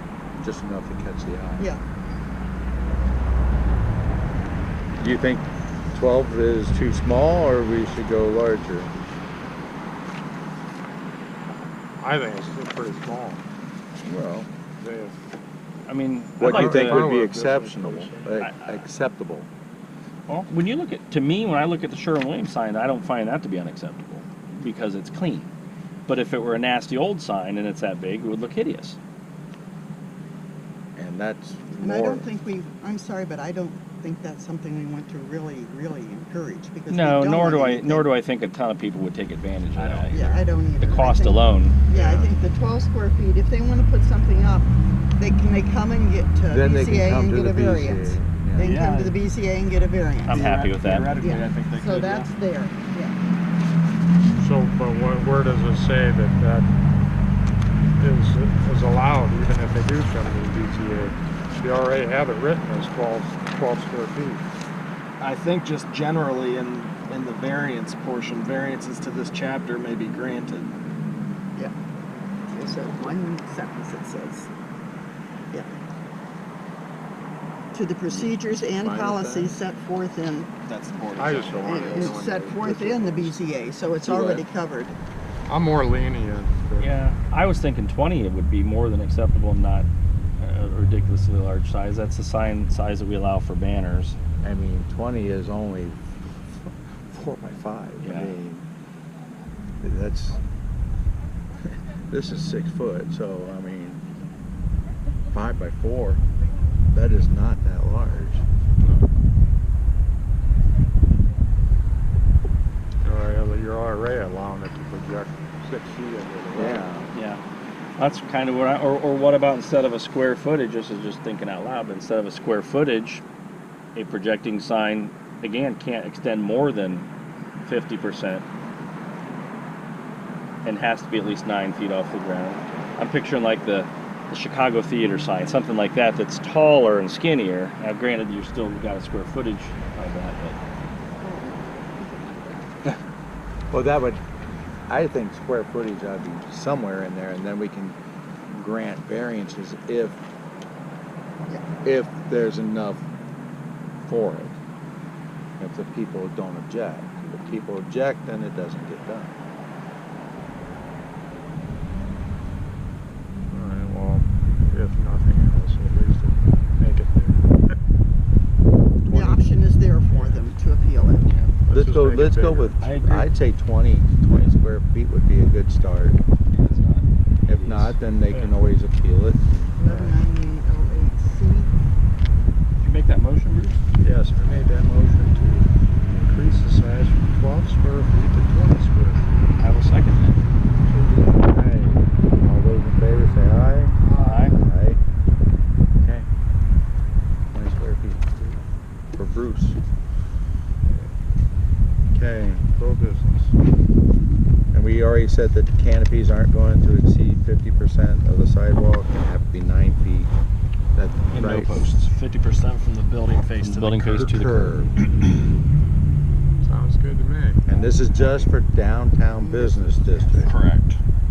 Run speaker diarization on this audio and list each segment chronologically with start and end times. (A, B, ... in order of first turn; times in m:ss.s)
0:00.4-0:01.7 A
0:05.0-0:08.9 A
0:12.0-0:13.4 B
0:14.0-0:14.5 A
0:14.8-0:15.2 B
0:15.9-0:17.1 C
0:16.4-0:19.5 A
0:16.4-0:18.3 B
0:18.4-0:18.8 C
0:20.3-0:25.5 C
0:26.1-0:29.0 C
0:31.0-0:32.3 A
0:31.8-0:38.1 D
0:36.9-0:40.2 C
0:39.7-0:40.5 E
0:40.1-0:50.5 D
0:40.8-0:41.8 C
0:41.9-0:42.3 E
0:46.5-0:48.7 A
0:48.6-0:49.2 E
0:50.2-0:51.1 C
0:50.3-0:52.3 E
0:51.2-0:53.2 D
0:54.4-0:56.7 B
0:58.0-1:04.4 B
1:05.2-1:10.7 E
1:12.5-1:14.5 D
1:17.7-1:20.5 D
1:18.1-1:19.6 E
1:20.6-1:22.4 E
1:21.1-1:23.4 B
1:21.6-1:25.0 D
1:24.0-1:24.4 E
1:25.5-1:27.0 B
1:26.8-1:29.9 C
1:30.4-1:34.2 C
1:34.4-1:36.0 A
1:37.1-1:38.6 A
1:38.0-1:38.4 C
1:39.8-1:40.4 A
1:42.1-1:44.0 A
1:45.3-1:46.2 A
1:46.9-1:48.4 A
1:48.8-1:49.1 B
1:53.0-1:56.9 B
1:56.5-1:57.1 A
1:57.1-1:57.4 C
1:58.0-2:03.2 C
2:04.0-2:07.1 C
2:07.6-2:08.4 C
2:10.6-2:20.6 C
2:21.2-2:22.8 D
2:23.7-2:24.2 A
2:24.9-2:28.0 A
2:28.5-2:30.2 A
2:31.8-2:33.0 A
2:34.1-2:34.6 A
2:35.6-2:39.3 A
2:43.5-2:47.5 B
2:49.1-2:49.6 B
2:49.1-2:51.3 D
2:50.1-2:50.4 B
2:51.7-2:52.8 B
2:51.7-2:56.2 A
2:52.8-2:53.3 C
2:56.5-2:58.0 C
2:57.5-2:59.8 A
2:58.3-2:58.6 B
2:59.8-3:01.7 D
2:59.8-3:00.2 B
3:02.8-3:03.8 C
3:04.0-3:09.3 B
3:09.6-3:10.4 C
3:10.9-3:11.6 B
3:11.5-3:15.0 A
3:14.0-3:14.5 B
3:14.1-3:14.6 C
3:16.0-3:16.3 A
3:17.5-3:18.3 A
3:19.2-3:19.8 A
3:22.1-3:22.6 A
3:22.6-3:23.6 B
3:24.7-3:30.3 A
3:31.0-3:31.8 A
3:31.3-3:34.4 E
3:33.6-3:34.7 C
3:34.2-3:34.9 A
3:36.6-3:37.6 B
3:37.7-3:40.5 A
3:39.4-3:40.4 D
3:40.3-3:41.0 E